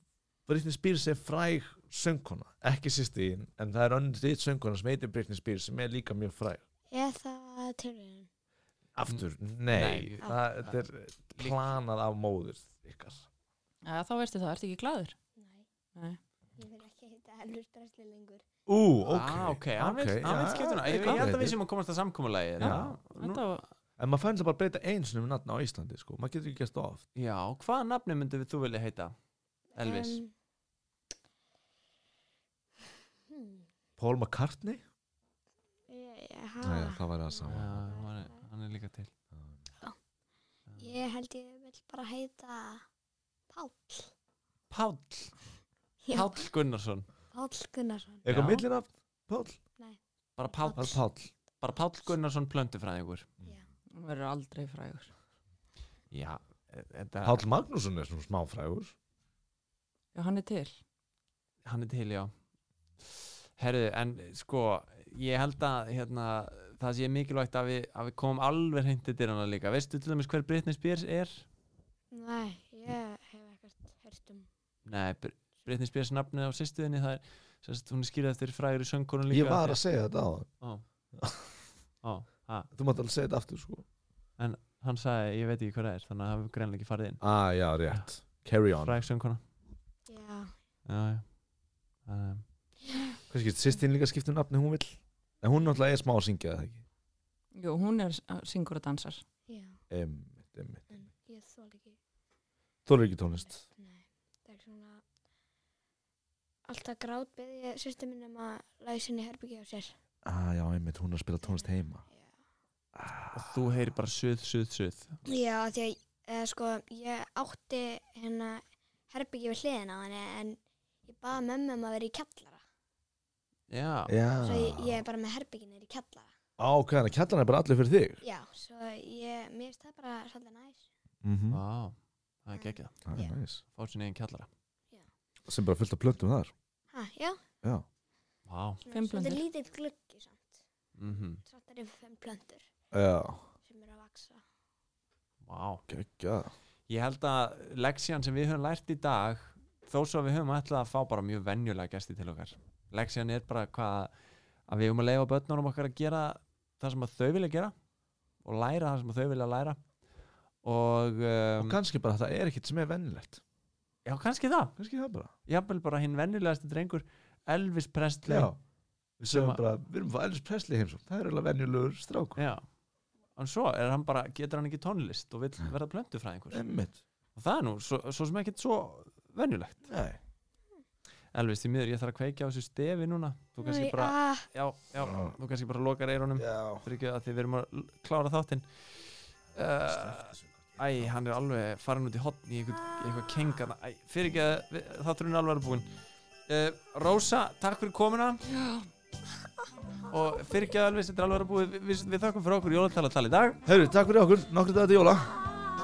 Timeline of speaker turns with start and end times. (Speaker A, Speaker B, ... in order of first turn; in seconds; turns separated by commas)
Speaker A: 0.5-6.6, Speaker B: 6.9-8.3, Speaker A: 8.9-13.3, Speaker C: 9.1-10.7, Speaker C: 11.4-11.7, Speaker D: 13.8-15.1, Speaker B: 15.4-15.7, Speaker B: 16.6-18.4, Speaker A: 18.7-21.6, Speaker C: 19.1-23.4, Speaker D: 20.9-21.2, Speaker A: 22.6-22.9, Speaker D: 22.6-23.6, Speaker A: 24.0-27.0, Speaker C: 27.1-29.1, Speaker C: 29.7-30.2, Speaker B: 29.8-30.3, Speaker B: 33.3-33.7, Speaker A: 34.0-34.8, Speaker B: 35.9-38.4, Speaker A: 36.6-38.3, Speaker C: 37.4-39.1, Speaker C: 40.7-41.0, Speaker B: 40.8-42.8, Speaker B: 43.5-44.1, Speaker C: 44.7-45.4, Speaker B: 46.0-46.5, Speaker C: 46.1-47.1, Speaker B: 47.3-48.2, Speaker A: 48.2-49.6, Speaker C: 48.3-48.6, Speaker C: 50.4-51.0, Speaker B: 50.5-50.9, Speaker A: 50.7-51.3, Speaker C: 51.6-53.3, Speaker D: 53.9-55.1, Speaker C: 56.1-57.4, Speaker A: 57.2-58.9, Speaker D: 60.1-60.8, Speaker C: 61.6-62.3, Speaker C: 63.0-71.5, Speaker B: 72.1-74.5, Speaker C: 74.9-79.8, Speaker A: 79.3-80.5, Speaker A: 81.2-81.6, Speaker C: 82.0-82.7, Speaker A: 82.7-83.8, Speaker C: 84.4-87.2, Speaker A: 87.2-89.0, Speaker C: 88.8-89.4, Speaker B: 90.1-90.5, Speaker C: 90.9-91.2, Speaker C: 92.1-92.4, Speaker A: 93.3-96.8, Speaker D: 97.5-99.2, Speaker B: 99.5-99.8, Speaker A: 99.9-101.0, Speaker B: 100.9-102.0, Speaker A: 102.9-103.6, Speaker B: 103.4-105.0, Speaker B: 106.7-109.9, Speaker A: 110.2-112.1, Speaker B: 111.4-112.4, Speaker A: 113.0-113.6, Speaker C: 113.3-115.2, Speaker B: 115.3-122.6, Speaker C: 123.7-124.1, Speaker A: 124.1-125.0, Speaker B: 124.4-126.3, Speaker A: 126.6-128.2, Speaker B: 128.2-130.9, Speaker A: 131.2-131.6, Speaker C: 131.5-133.0, Speaker B: 132.5-133.4, Speaker A: 133.1-133.6, Speaker C: 133.7-134.5, Speaker A: 135.5-136.5, Speaker B: 136.9-137.4, Speaker C: 138.5-138.8, Speaker B: 138.8-142.7, Speaker D: 138.9-139.4, Speaker C: 141.0-141.4, Speaker A: 142.9-143.5, Speaker B: 143.6-144.4, Speaker C: 145.4-145.8, Speaker A: 145.9-146.5, Speaker C: 146.9-154.1, Speaker C: 154.7-157.7, Speaker C: 158.4-159.8, Speaker C: 160.6-161.8, Speaker A: 161.6-163.4, Speaker C: 164.1-164.7, Speaker A: 164.8-165.3, Speaker C: 165.5-168.5, Speaker A: 168.2-168.6, Speaker A: 169.2-172.4, Speaker C: 169.3-169.6, Speaker C: 172.4-172.6, Speaker C: 173.4-176.6, Speaker A: 176.5-177.0, Speaker C: 177.4-179.8, Speaker A: 179.9-180.2, Speaker C: 181.3-195.9, Speaker B: 183.6-184.5, Speaker A: 185.0-185.3, Speaker A: 186.4-186.9, Speaker A: 189.8-191.1, Speaker C: 196.5-198.4, Speaker D: 198.5-198.9, Speaker C: 200.1-203.6, Speaker A: 203.7-205.4